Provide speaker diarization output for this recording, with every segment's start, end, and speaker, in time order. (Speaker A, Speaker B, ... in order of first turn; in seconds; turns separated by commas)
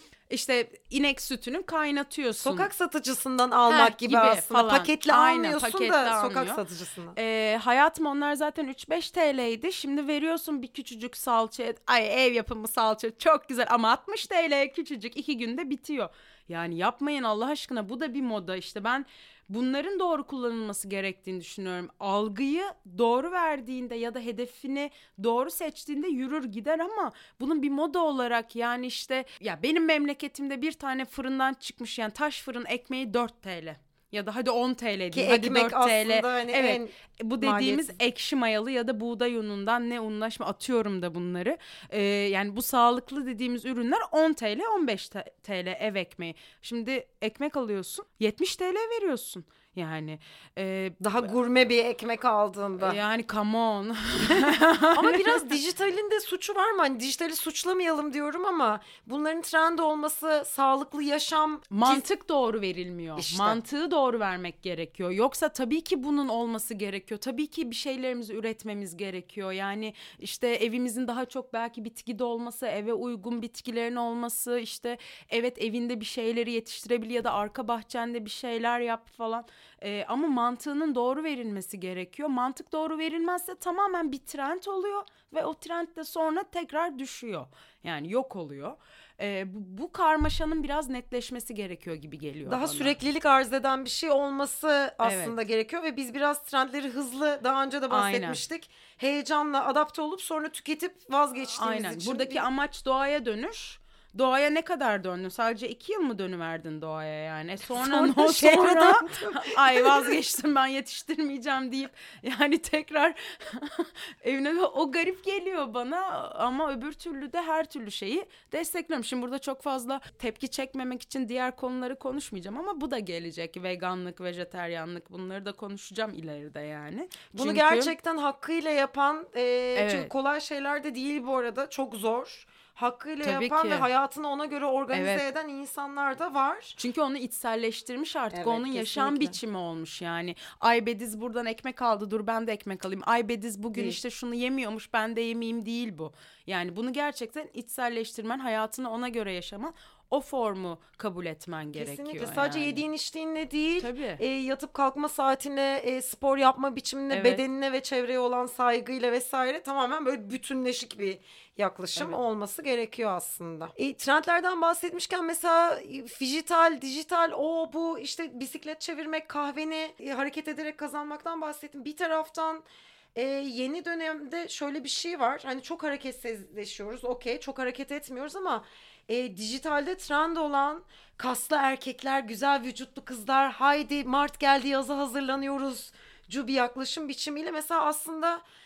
Speaker A: 0.3-2.7, Speaker B: 2.4-7.2, Speaker A: 3.7-6.6, Speaker A: 7.2-51.2, Speaker B: 35.1-38.0, Speaker B: 51.0-53.0, Speaker A: 52.8-55.5, Speaker B: 54.3-62.1, Speaker A: 61.7-93.0, Speaker B: 63.2-63.6, Speaker B: 92.5-102.4, Speaker A: 95.0-95.4, Speaker A: 97.9-98.4, Speaker A: 101.5-127.9, Speaker B: 107.7-110.1, Speaker B: 127.3-136.8, Speaker A: 129.8-130.1, Speaker A: 133.2-133.9, Speaker A: 134.9-135.2, Speaker A: 136.8-152.8, Speaker B: 138.3-139.4, Speaker B: 151.8-172.6, Speaker A: 153.8-154.2, Speaker A: 157.1-157.4, Speaker B: 173.2-188.4